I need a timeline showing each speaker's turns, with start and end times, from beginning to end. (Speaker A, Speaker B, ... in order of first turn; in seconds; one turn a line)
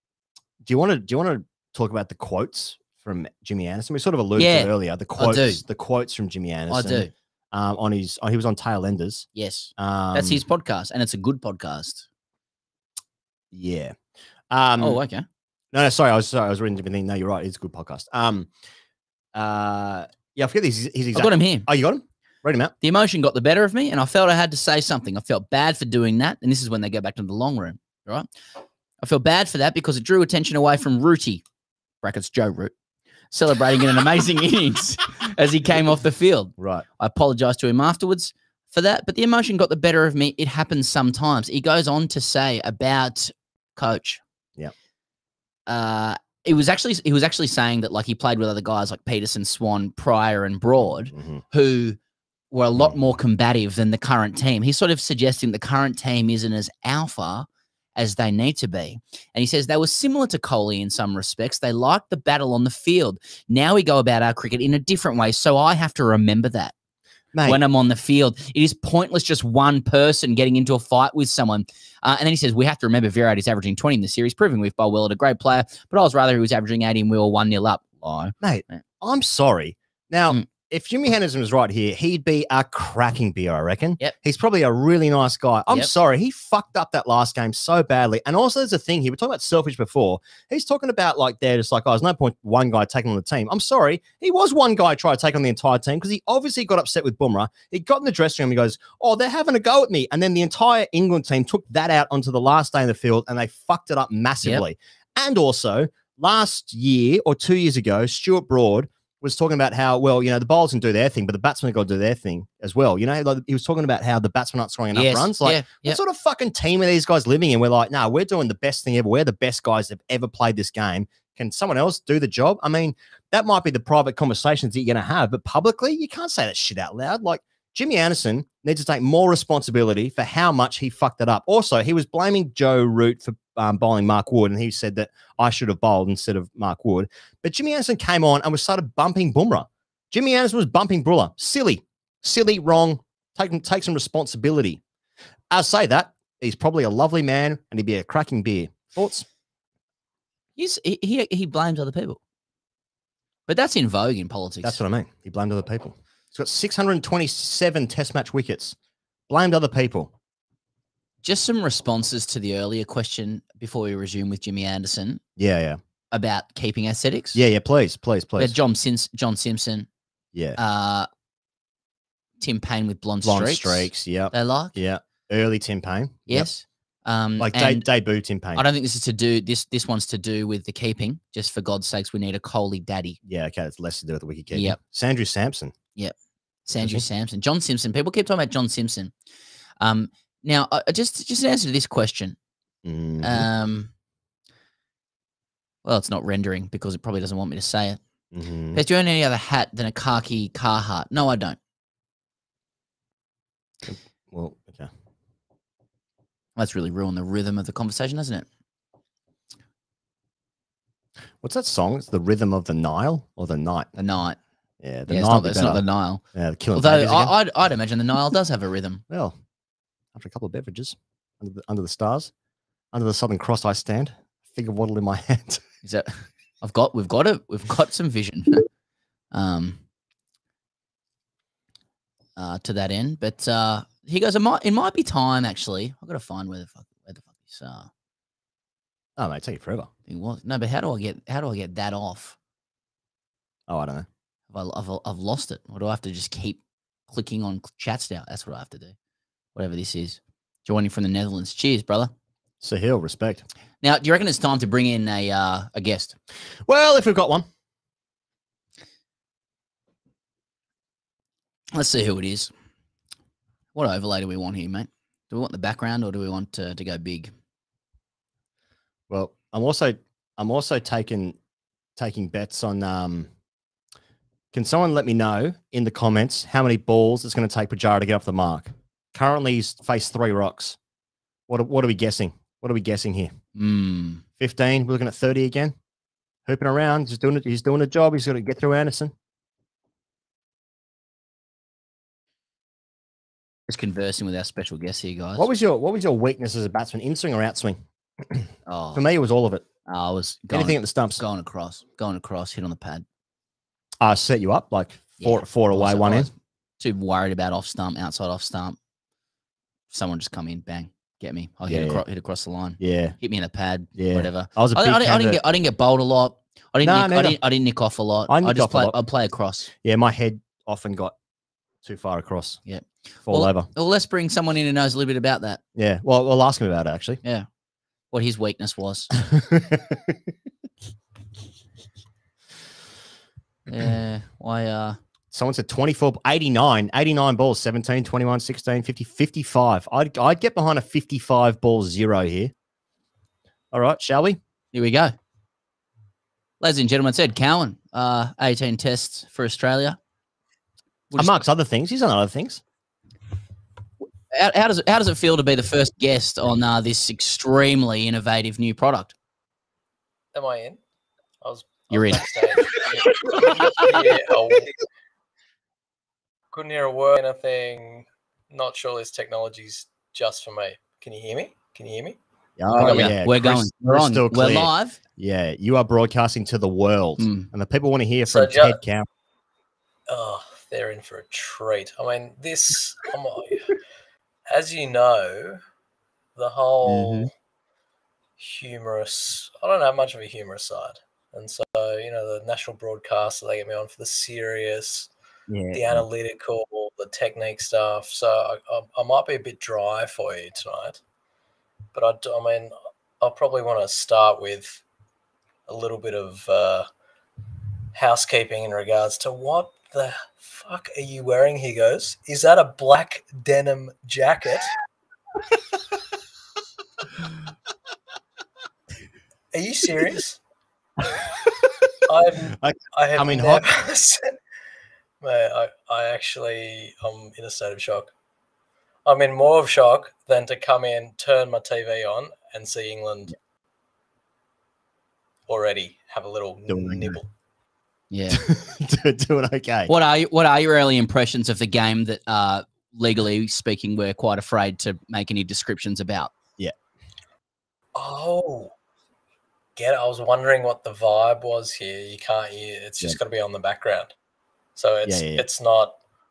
Speaker A: 0.6-10.4
Speaker B: 4.3-5.6
Speaker B: 6.7-7.1
Speaker B: 9.3-12.1
Speaker A: 13.5-13.9
Speaker A: 14.5-15.0
Speaker B: 14.8-15.2
Speaker A: 15.7-18.5
Speaker A: 19.3-22.7
Speaker B: 21.1-21.7
Speaker B: 22.8-28.3
Speaker B: 29.0-31.4
Speaker B: 32.0-32.7
Speaker B: 33.3-44.2
Speaker A: 36.6-36.8
Speaker B: 45.7-52.0
Speaker A: 51.1-51.4
Speaker B: 52.5-66.7
Speaker A: 67.3-67.6
Speaker B: 67.5-78.8
Speaker A: 78.4-144.8
Speaker B: 114.9-116.0
Speaker A: 145.5-149.2
Speaker B: 150.6-152.2
Speaker B: 153.5-154.8
Speaker A: 154.6-158.8
Speaker A: 159.3-160.1
Speaker B: 161.2-165.2
Speaker A: 165.4-165.8
Speaker B: 166.1-167.4
Speaker A: 167.3-168.6
Speaker B: 168.4-169.9
Speaker B: 170.6-171.1
Speaker B: 172.4-174.8
Speaker A: 173.2-176.5
Speaker B: 176.3-177.8
Speaker A: 177.4-178.6
Speaker B: 178.5-183.2
Speaker A: 183.2-185.7
Speaker B: 184.5-184.8
Speaker B: 186.7-189.1
Speaker A: 186.8-187.0
Speaker B: 189.8-192.3
Speaker A: 192.8-193.5
Speaker B: 193.2-193.9
Speaker B: 195.8-198.0
Speaker A: 198.3-198.8
Speaker B: 198.7-201.6
Speaker A: 203.8-204.9
Speaker B: 206.6-208.4
Speaker A: 211.4-213.9
Speaker B: 213.9-214.4
Speaker A: 214.8-217.3
Speaker B: 215.1-216.2
Speaker B: 216.7-219.0
Speaker A: 219.1-219.4
Speaker A: 220.1-222.3
Speaker A: 222.9-225.6
Speaker B: 225.8-228.6
Speaker B: 229.3-229.8
Speaker B: 232.3-237.9
Speaker A: 239.2-239.9
Speaker B: 240.1-242.3
Speaker A: 243.7-244.1
Speaker B: 244.5-248.9
Speaker B: 249.5-252.1
Speaker A: 252.6-253.4
Speaker B: 253.8-256.1
Speaker A: 256.6-257.4
Speaker B: 261.7-262.5
Speaker B: 263.7-267.3
Speaker A: 269.1-271.4
Speaker A: 272.0-273.3
Speaker A: 274.5-280.8
Speaker A: 281.5-283.3
Speaker B: 283.6-284.2
Speaker A: 284.4-285.8
Speaker A: 286.4-289.1
Speaker B: 293.7-295.5
Speaker A: 295.4-299.6
Speaker B: 298.6-299.0
Speaker B: 299.9-303.0
Speaker A: 300.5-301.2
Speaker A: 304.0-306.3
Speaker B: 305.2-308.8
Speaker B: 309.9-319.7
Speaker A: 311.7-312.0
Speaker A: 312.8-313.1
Speaker A: 313.9-315.4
Speaker A: 316.8-317.4
Speaker A: 318.3-319.0
Speaker A: 319.8-321.1
Speaker A: 321.8-322.6
Speaker B: 322.6-325.6
Speaker A: 323.3-323.7
Speaker A: 325.7-327.2
Speaker B: 328.1-329.1
Speaker A: 329.2-330.2
Speaker B: 333.7-335.0
Speaker A: 335.3-342.5
Speaker A: 343.7-344.4
Speaker B: 344.7-345.1
Speaker B: 346.6-350.0
Speaker A: 351.1-352.6
Speaker B: 354.3-359.1
Speaker C: 360.3-360.8
Speaker C: 361.4-364.8
Speaker B: 361.9-362.2
Speaker B: 363.2-364.0
Speaker C: 366.5-372.2
Speaker A: 372.6-379.1
Speaker B: 372.7-375.0
Speaker C: 372.7-373.1
Speaker B: 377.2-377.5
Speaker C: 378.2-378.8
Speaker C: 380.1-383.6
Speaker C: 384.5-385.6
Speaker C: 386.4-387.3
Speaker A: 386.9-387.3
Speaker C: 388.4-395.1
Speaker B: 395.5-395.8
Speaker C: 395.7-401.0
Speaker C: 401.9-404.8
Speaker C: 405.7-406.9
Speaker C: 407.9-414.7
Speaker C: 419.5-420.4
Speaker C: 422.1-424.3
Speaker A: 422.6-423.6
Speaker C: 425.2-428.1
Speaker C: 429.1-433.3
Speaker C: 435.5-437.3
Speaker A: 436.7-437.2
Speaker B: 438.1-438.4
Speaker A: 438.3-439.9
Speaker B: 439.9-446.3
Speaker C: 447.9-448.7
Speaker C: 449.8-454.1
Speaker C: 454.8-456.0
Speaker A: 455.0-455.4